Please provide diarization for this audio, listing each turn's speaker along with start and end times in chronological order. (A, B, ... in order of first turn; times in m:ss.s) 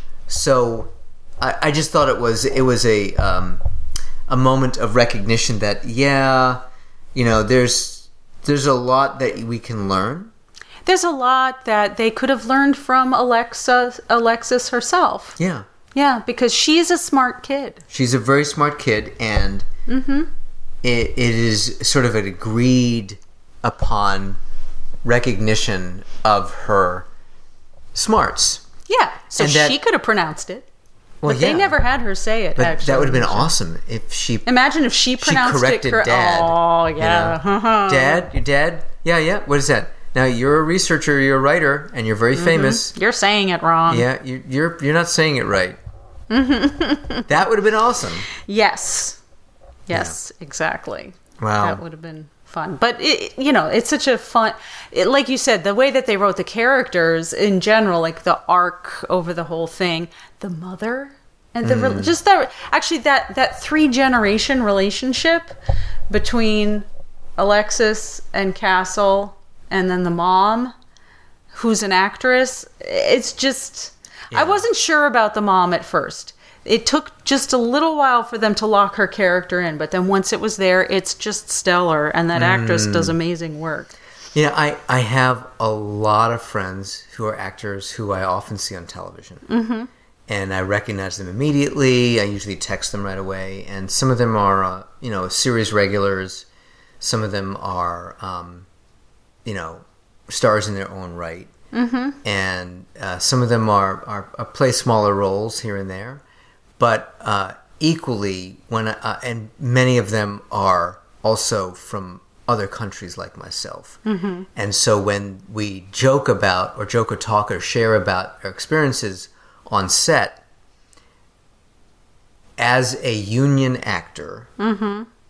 0:00.3-0:03.6 A
0:04.3-0:06.6 A
0:07.1-0:10.3 A
0:10.8-0:15.4 B
0:15.4-0:15.6 A
0:15.9-0:17.8 B
0:17.9-0:19.6 A
0:19.9-0:20.3 B
0:20.8-0:24.4 A
0:25.0-0:27.0 A
0:27.9-0:28.6 A
0:28.9-0:30.6 B
0:29.4-0:29.8 A
0:31.2-0:31.8 A
0:31.2-0:33.5 B
0:32.6-0:34.4 A
0:34.4-0:38.2 B
0:35.2-0:42.9 A
0:42.3-0:44.1 B
0:43.9-0:45.8 A
0:46.3-0:47.3 B
0:47.3-0:48.3 A
0:48.3-0:49.2 B
0:49.9-1:05.5 B
0:49.9-0:50.2 A
0:51.4-0:51.8 A
1:01.6-1:02.1 A
1:06.1-1:06.8 B
1:07.4-1:10.7 B
1:11.5-1:23.9 B
1:14.3-1:14.6 A
1:22.3-1:23.2 A
1:24.3-1:29.4 A
1:29.5-1:29.9 B
1:30.3-1:36.5 A
1:37.0-1:38.6 A
1:39.4-1:41.5 A
1:41.7-1:42.2 B
1:42.2-1:46.2 A
1:46.8-1:54.0 A
1:54.0-1:54.5 B
1:54.5-2:00.4 A
2:02.6-2:04.5 A
2:04.6-2:05.1 B